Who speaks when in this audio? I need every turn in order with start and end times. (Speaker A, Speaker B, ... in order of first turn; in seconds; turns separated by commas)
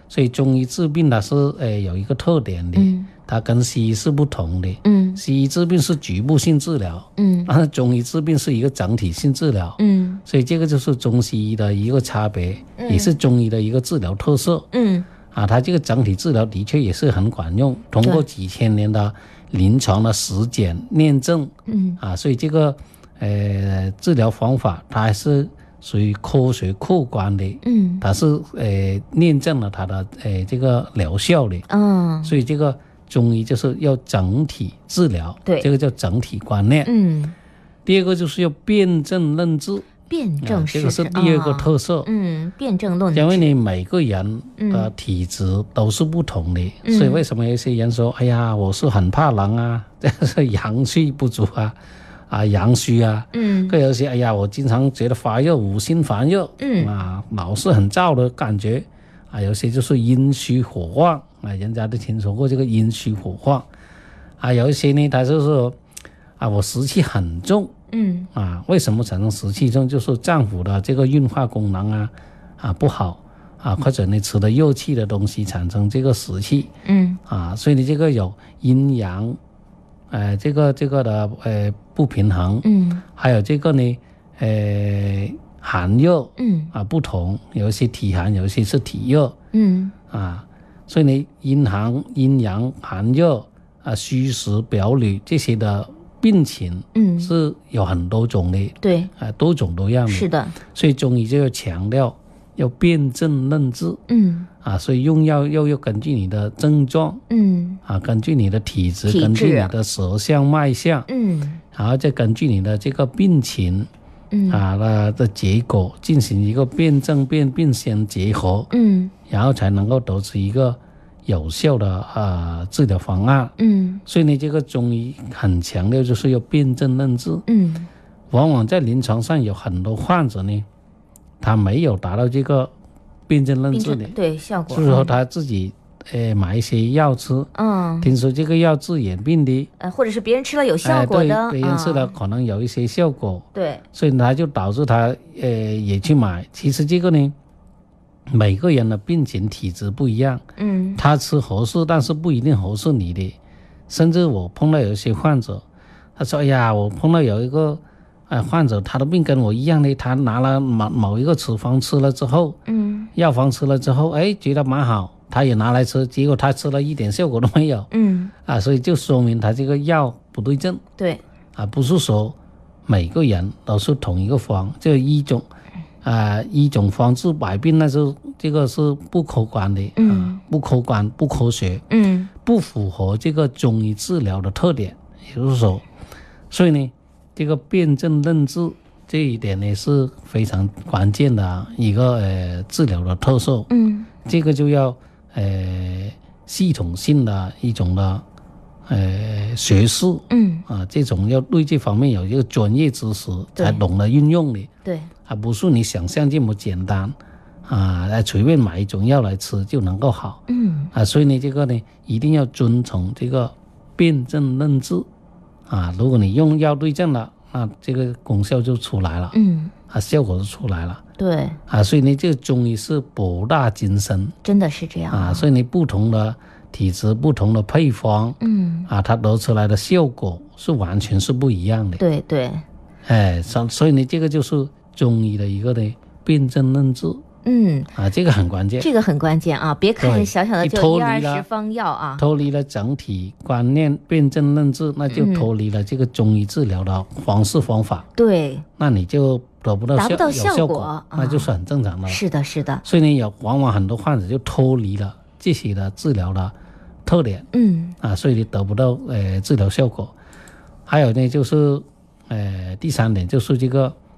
Speaker A: 0.1-14.7, Speaker B: 2.8-3.1, Speaker B: 4.8-5.2, Speaker B: 7.2-7.5, Speaker B: 9.8-10.2, Speaker B: 12.8-13.1, Speaker B: 14.7-15.1, Speaker A: 15.3-31.6, Speaker B: 21.7-22.0, Speaker B: 27.6-28.0, Speaker B: 31.7-32.3, Speaker A: 32.2-36.9, Speaker B: 36.8-37.3, Speaker A: 37.9-42.1, Speaker B: 40.1-43.5, Speaker A: 43.1-51.8, Speaker B: 44.6-44.9, Speaker B: 46.8-47.2, Speaker A: 52.3-63.7, Speaker B: 53.3-53.8, Speaker B: 56.6-56.9, Speaker A: 64.4-65.8, Speaker A: 66.4-67.7, Speaker B: 67.9-68.3, Speaker A: 68.3-76.7, Speaker B: 76.8-77.2, Speaker A: 77.3-79.4, Speaker A: 80.1-89.3, Speaker B: 82.6-83.0, Speaker B: 86.4-86.7, Speaker B: 89.5-89.9, Speaker A: 90.1-104.0, Speaker B: 96.9-97.3, Speaker B: 98.8-99.1, Speaker B: 100.1-100.6, Speaker B: 104.1-104.5, Speaker A: 104.6-107.2, Speaker B: 107.3-107.8, Speaker A: 107.8-111.1, Speaker B: 109.1-109.7, Speaker B: 111.1-111.6, Speaker A: 111.7-113.9, Speaker B: 114.3-114.6, Speaker A: 114.5-118.7, Speaker B: 118.7-119.1, Speaker A: 119.3-123.5, Speaker B: 123.6-124.0, Speaker A: 124.1-127.4, Speaker B: 127.5-127.9, Speaker A: 128.3-130.7, Speaker A: 131.4-132.7, Speaker A: 133.3-134.2, Speaker B: 133.7-135.1, Speaker A: 134.7-137.5, Speaker B: 137.5-138.1, Speaker A: 138.0-139.7, Speaker B: 139.8-142.1, Speaker A: 140.8-147.3, Speaker B: 143.5-143.8, Speaker A: 148.3-150.4, Speaker B: 150.6-151.0, Speaker A: 151.0-153.4, Speaker A: 153.9-155.7, Speaker A: 156.2-162.6, Speaker B: 162.7-163.1, Speaker A: 163.2-167.9, Speaker B: 167.9-168.3, Speaker A: 168.4-170.8, Speaker A: 171.6-172.3, Speaker A: 172.9-175.5, Speaker A: 176.0-181.8, Speaker B: 180.0-180.4, Speaker B: 181.9-182.3, Speaker A: 182.4-185.8, Speaker A: 186.5-193.7, Speaker B: 193.7-194.1, Speaker A: 194.2-198.2, Speaker A: 198.9-204.7, Speaker B: 200.3-200.7, Speaker B: 203.6-203.8, Speaker B: 204.8-205.1, Speaker A: 205.3-207.2, Speaker A: 207.7-215.1, Speaker B: 210.5-210.9, Speaker A: 215.7-219.3, Speaker B: 219.3-219.7, Speaker A: 219.9-221.0, Speaker B: 221.2-221.6, Speaker A: 221.7-224.3, Speaker B: 224.4-225.4, Speaker A: 225.1-232.0, Speaker B: 228.4-228.9, Speaker B: 232.0-232.6, Speaker A: 233.1-237.2, Speaker B: 237.4-237.9, Speaker A: 238.0-238.9, Speaker B: 238.8-242.2, Speaker A: 240.0-241.4, Speaker A: 242.2-248.1, Speaker B: 245.1-245.5, Speaker B: 248.2-248.7, Speaker A: 248.8-252.2, Speaker B: 250.0-251.5, Speaker B: 252.1-252.8, Speaker A: 252.8-256.5, Speaker A: 257.1-257.4, Speaker B: 257.5-257.9, Speaker A: 258.0-260.1, Speaker A: 260.9-263.9